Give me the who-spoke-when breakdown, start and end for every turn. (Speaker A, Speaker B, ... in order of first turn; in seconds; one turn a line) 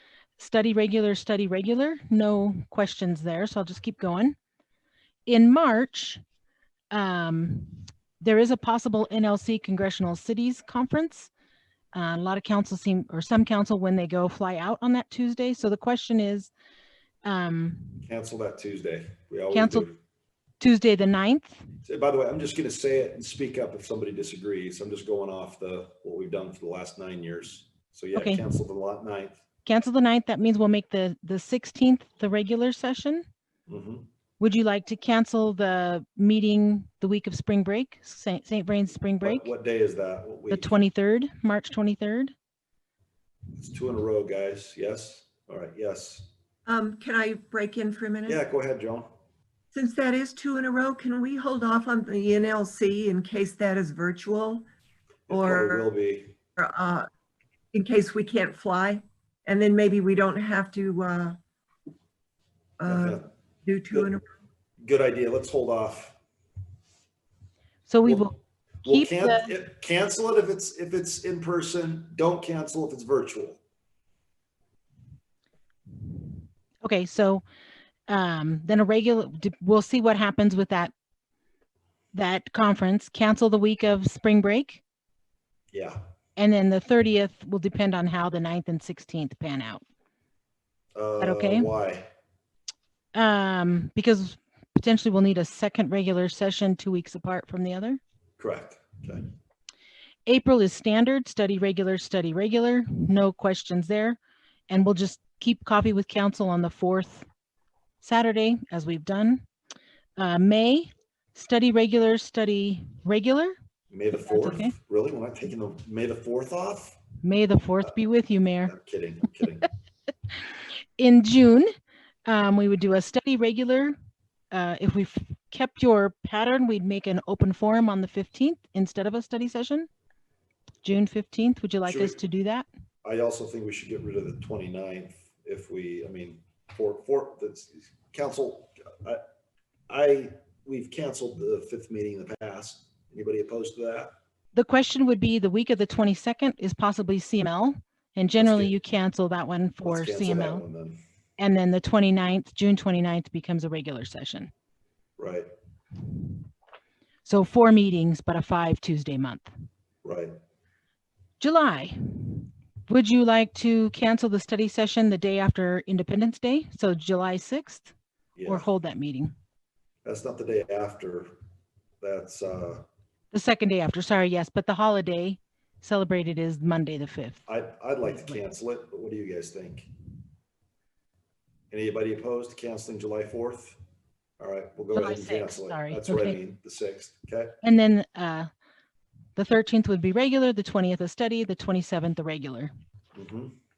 Speaker A: 0.4-4.4
Speaker A: 5.2-6.2
Speaker A: 6.9-11.3
Speaker A: 11.9-16.5
Speaker A: 17.2-18.0
Speaker B: 18.1-19.9
Speaker A: 19.5-19.9
Speaker A: 20.6-21.6
Speaker B: 21.8-29.4
Speaker A: 28.1-28.5
Speaker A: 29.7-33.3
Speaker B: 33.7-34.0
Speaker A: 34.4-39.5
Speaker B: 39.2-40.7
Speaker A: 40.5-42.3
Speaker B: 43.5-46.3
Speaker C: 46.7-48.4
Speaker B: 48.3-49.1
Speaker C: 49.7-54.7
Speaker C: 55.3-55.9
Speaker B: 55.3-56.4
Speaker C: 56.6-57.1
Speaker C: 57.7-61.4
Speaker C: 62.8-64.3
Speaker B: 62.9-63.2
Speaker B: 64.8-66.2
Speaker A: 67.9-69.5
Speaker B: 68.0-68.3
Speaker B: 68.8-73.6
Speaker A: 76.8-77.4
Speaker A: 78.1-80.9
Speaker A: 82.1-84.8
Speaker B: 85.7-86.0
Speaker A: 86.4-89.8
Speaker B: 90.9-92.1
Speaker A: 91.2-91.7
Speaker A: 93.2-98.0
Speaker B: 98.4-99.2
Speaker A: 100.2-104.2
Speaker A: 104.7-107.3
Speaker A: 108.0-109.5
Speaker A: 110.2-113.5
Speaker B: 113.9-117.0
Speaker A: 114.2-114.8
Speaker A: 117.2-118.7
Speaker B: 118.7-119.7
Speaker A: 121.0-121.7
Speaker A: 122.3-124.0
Speaker A: 124.5-129.9
Speaker A: 130.8-132.7
Speaker B: 131.9-132.2
Speaker B: 133.0-139.2
Speaker B: 139.9-144.1
Speaker A: 144.5-150.7
Speaker B: 148.4-148.7
Speaker B: 149.8-151.0
Speaker A: 151.4-154.5
Speaker B: 155.2-155.5
Speaker A: 157.2-159.5
Speaker B: 160.0-160.4
Speaker A: 161.4-167.9
Speaker B: 168.4-168.7
Speaker A: 168.4-169.3
Speaker B: 170.0-171.3
Speaker B: 172.0-172.8
Speaker A: 173.3-177.4
Speaker B: 177.5-179.9
Speaker A: 178.1-178.4
Speaker B: 181.7-183.8
Speaker B: 184.4-187.6
Speaker A: 184.9-186.4
Speaker A: 187.6-188.5
Speaker A: 189.4-192.7
Speaker B: 193.2-193.5